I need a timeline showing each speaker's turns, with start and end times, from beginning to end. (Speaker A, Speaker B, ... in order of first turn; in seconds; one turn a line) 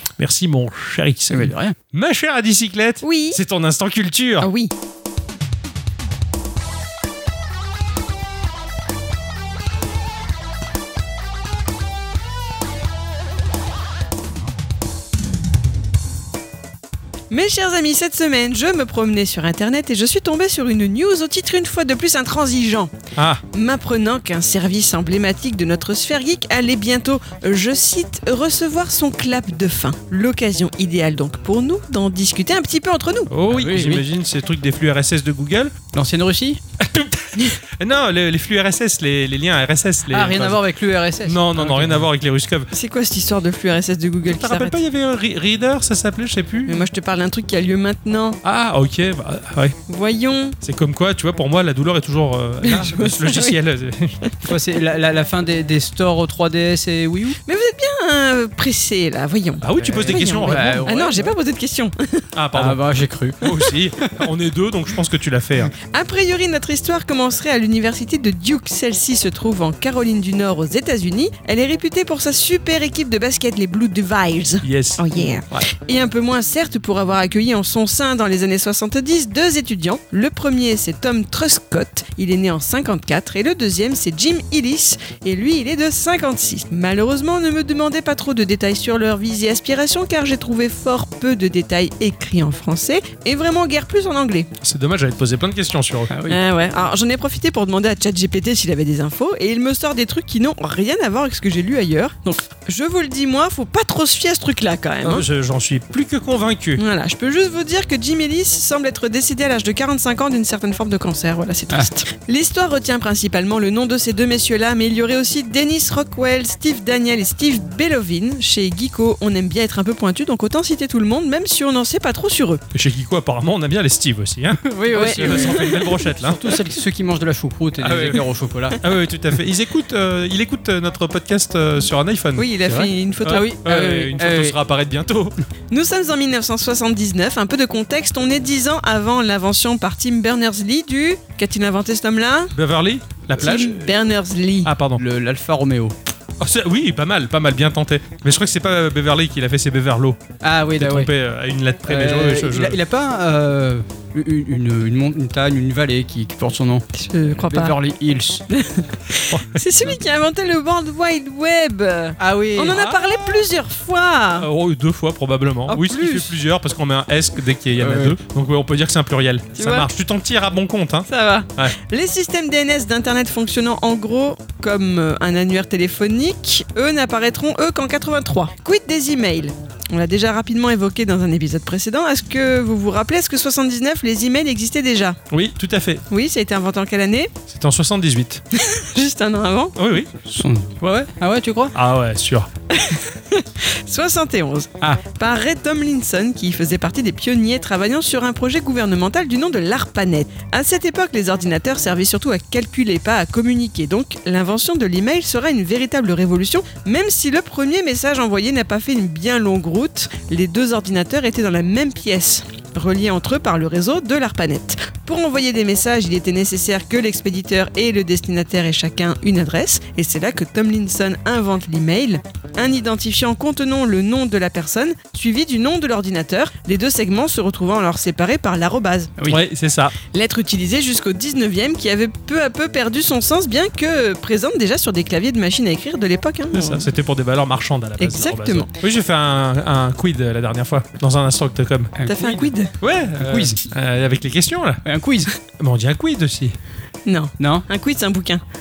Speaker A: 0.2-4.5
Speaker B: 1.3-1.7
Speaker C: 3.0-3.4
Speaker C: 4.4-4.7
Speaker C: 17.3-22.9
Speaker A: 23.1-23.4
Speaker C: 23.5-33.3
Speaker A: 33.3-35.7
Speaker B: 33.5-34.0
Speaker B: 35.9-36.6
Speaker A: 36.8-40.6
Speaker B: 40.1-42.0
Speaker A: 41.2-42.7
Speaker C: 42.7-44.8
Speaker A: 44.2-46.9
Speaker C: 46.6-48.4
Speaker A: 48.4-49.8
Speaker C: 49.9-50.6
Speaker A: 50.6-54.2
Speaker C: 52.6-53.5
Speaker B: 54.4-57.4
Speaker C: 57.5-62.3
Speaker A: 59.6-60.9
Speaker B: 59.8-61.3
Speaker A: 62.3-62.8
Speaker B: 62.5-64.2
Speaker A: 63.4-65.7
Speaker C: 65.9-94.5
Speaker A: 74.6-75.7
Speaker A: 94.6-96.1
Speaker B: 96.1-96.4
Speaker C: 96.3-105.2
Speaker A: 105.0-106.8
Speaker C: 106.8-122.6
Speaker A: 122.7-126.4
Speaker B: 124.6-128.8
Speaker C: 124.9-125.8
Speaker A: 127.8-128.2
Speaker A: 128.8-135.3
Speaker C: 132.4-133.4
Speaker B: 133.3-134.6
Speaker C: 135.7-142.5
Speaker A: 142.5-143.9
Speaker C: 143.4-144.7
Speaker A: 144.6-145.0
Speaker B: 145.0-145.9
Speaker A: 146.4-152.8
Speaker B: 150.4-151.1
Speaker B: 151.9-158.4
Speaker C: 156.9-157.8
Speaker C: 158.5-164.5
Speaker A: 159.3-159.6
Speaker B: 162.2-162.8
Speaker A: 162.7-163.4
Speaker A: 164.4-171.7
Speaker C: 165.7-166.3
Speaker B: 167.8-168.2
Speaker C: 169.6-169.9
Speaker C: 171.1-185.2
Speaker A: 185.3-186.0
Speaker C: 186.1-187.3
Speaker A: 187.5-188.4
Speaker C: 188.5-189.7
Speaker A: 189.8-190.1
Speaker B: 190.3-191.7
Speaker A: 191.7-192.5
Speaker C: 192.7-229.1
Speaker A: 229.3-229.9
Speaker C: 230.1-236.9
Speaker A: 236.5-241.9
Speaker C: 238.0-238.7
Speaker B: 242.0-242.5
Speaker C: 242.1-242.7
Speaker A: 242.8-244.8
Speaker B: 243.2-243.6
Speaker B: 244.8-245.3
Speaker A: 245.6-246.5
Speaker C: 247.1-248.4
Speaker B: 247.4-247.7